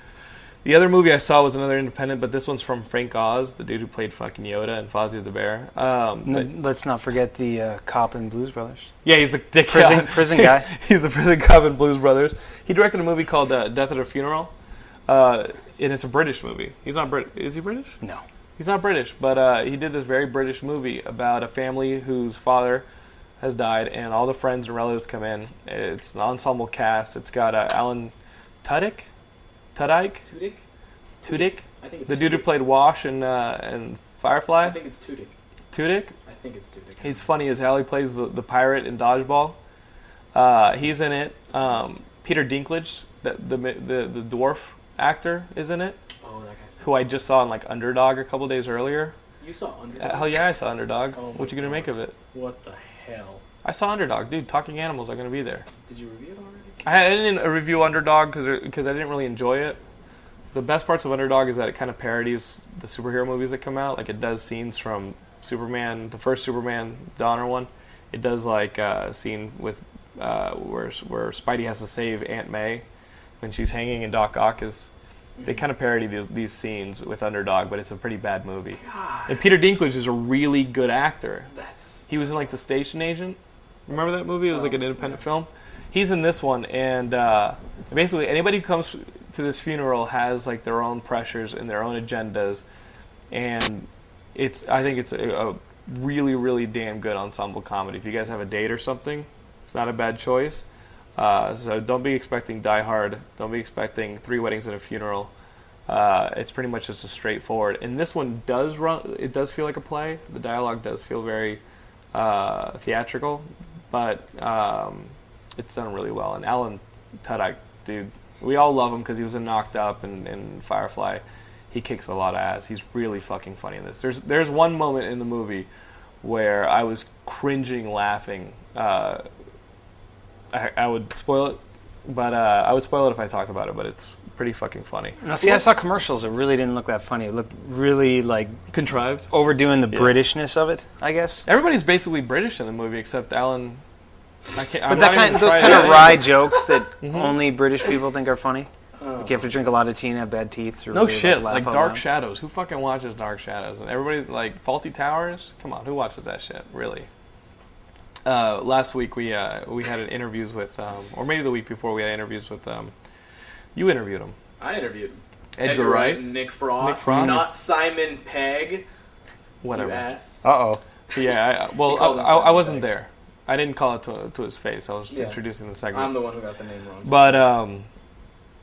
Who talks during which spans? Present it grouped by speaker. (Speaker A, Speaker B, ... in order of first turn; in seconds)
Speaker A: 0.6-6.5, 9.0-14.5, 15.1-18.0, 18.6-22.9, 23.4-28.1, 28.6-29.1, 29.7-30.2, 31.2-34.8, 35.7-36.1, 37.0-39.6, 40.3-46.0, 46.8-49.1, 50.0-52.2, 53.6-55.6, 56.8-59.8, 60.5-72.8, 73.4-74.9, 75.4-81.5, 82.1-92.7, 93.3-105.3, 105.9-111.6, 112.1-125.7, 126.2-129.2, 130.5-135.6, 138.7-139.3, 139.9-140.2, 141.4-143.8, 144.5-146.3, 147.0-147.4, 150.9-157.1, 158.2-162.9, 163.7-164.3, 165.6-166.3, 166.8-167.5, 169.6-170.0, 171.1-176.1, 177.0-177.9
Speaker B: 6.2-8.9, 9.7-10.7, 135.2-138.6, 139.3-141.4, 144.9-148.7, 149.2-152.0, 167.0-167.4, 170.4-170.8
Speaker C: 30.2-30.6, 31.2-32.5, 34.6-35.3, 36.2-37.2, 46.2-47.1, 49.4-50.4, 51.1-53.4, 55.8-56.9, 75.4-75.6, 78.8-79.4, 81.5-82.0, 84.5-85.2, 149.0-149.5, 164.6-168.8, 169.7-170.4, 171.8-172.9, 175.1-175.4, 175.9-177.6